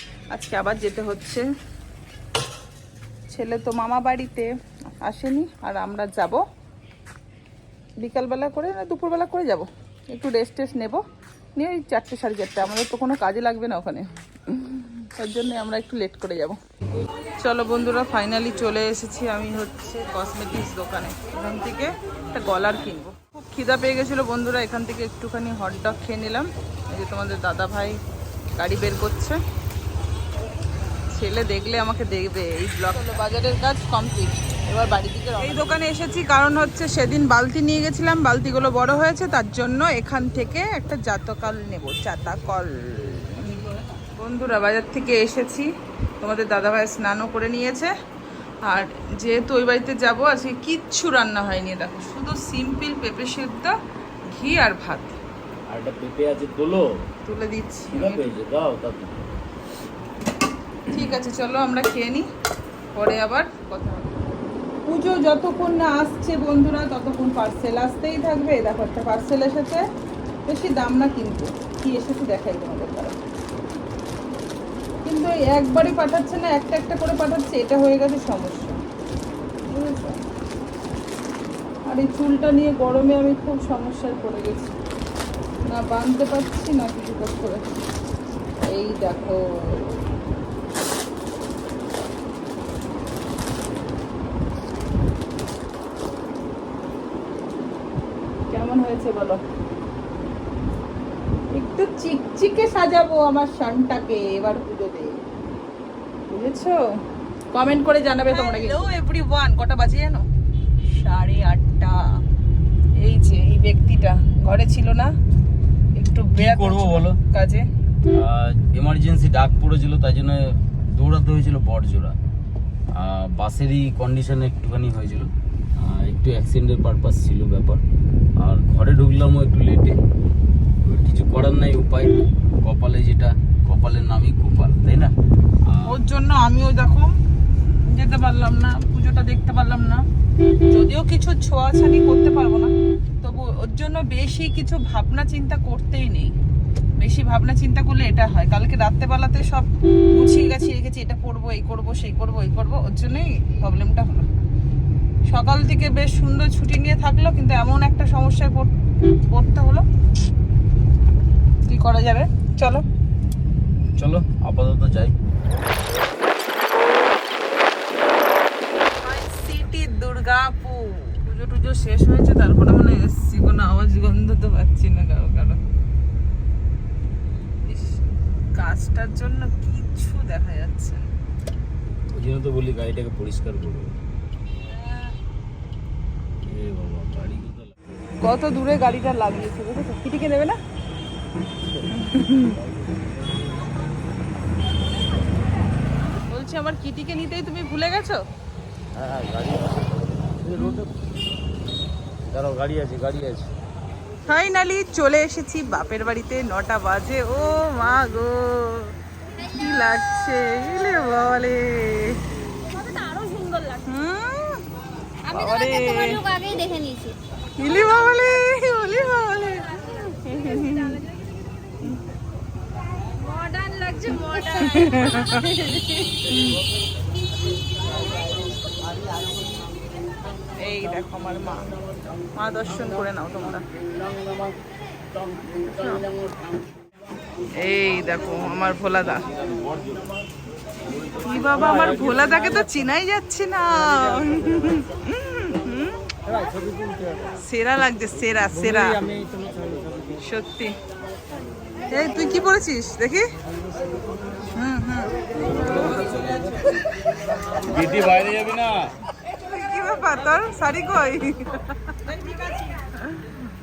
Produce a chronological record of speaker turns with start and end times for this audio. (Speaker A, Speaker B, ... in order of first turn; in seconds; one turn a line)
Speaker A: 0.3-1.4
Speaker A: 3.3-6.4
Speaker A: 8.0-11.0
Speaker A: 11.6-16.6
Speaker A: 17.4-28.0
Speaker A: 28.5-29.4
Speaker A: 31.1-45.7
Speaker A: 46.2-47.9
Speaker A: 48.6-53.7
Speaker A: 54.3-55.2
Speaker B: 55.7-56.8
Speaker A: 57.2-58.3
Speaker B: 57.9-59.2
Speaker A: 60.9-62.2
Speaker A: 62.9-64.1
Speaker A: 64.8-69.8
Speaker A: 70.5-73.2
Speaker A: 75.0-78.8
Speaker A: 79.7-80.2
Speaker A: 81.9-84.7
Speaker A: 85.7-87.7
Speaker A: 88.6-89.9
Speaker A: 98.5-99.4
Speaker A: 101.5-105.2
Speaker A: 106.3-106.8
Speaker A: 107.5-110.2
Speaker C: 108.5-108.8
Speaker A: 110.9-112.1
Speaker A: 113.0-115.1
Speaker A: 115.9-117.7
Speaker B: 116.3-117.2
Speaker B: 118.1-122.2
Speaker B: 122.9-127.8
Speaker B: 128.4-130.0
Speaker B: 130.8-135.1
Speaker A: 135.8-140.0
Speaker A: 140.7-146.3
Speaker A: 147.0-154.3
Speaker A: 155.3-158.7
Speaker A: 159.3-159.8
Speaker A: 161.6-162.8
Speaker B: 164.0-165.1
Speaker A: 168.9-175.6
Speaker A: 177.7-178.0
Speaker A: 178.5-181.1
Speaker B: 182.1-183.9
Speaker B: 186.4-187.7
Speaker A: 188.2-190.6
Speaker A: 191.9-192.6
Speaker B: 192.5-193.0
Speaker A: 196.3-198.2
Speaker B: 198.9-199.9
Speaker B: 200.4-200.9
Speaker B: 202.3-203.5
Speaker A: 204.3-212.2
Speaker C: 212.6-213.8
Speaker A: 213.8-214.6
Speaker A: 215.3-216.2
Speaker C: 215.3-217.2
Speaker A: 217.6-221.0
Speaker C: 219.8-221.2
Speaker C: 223.1-225.7
Speaker A: 224.4-226.6
Speaker A: 230.6-231.6
Speaker A: 232.3-233.6
Speaker A: 235.7-236.0
Speaker A: 237.6-239.2
Speaker B: 239.3-240.1
Speaker B: 241.0-242.3
Speaker A: 241.2-246.0
Speaker A: 247.4-249.0
Speaker B: 249.1-249.9
Speaker A: 250.2-250.7
Speaker A: 251.9-253.2
Speaker A: 254.5-256.2
Speaker B: 257.6-258.8
Speaker A: 259.2-261.6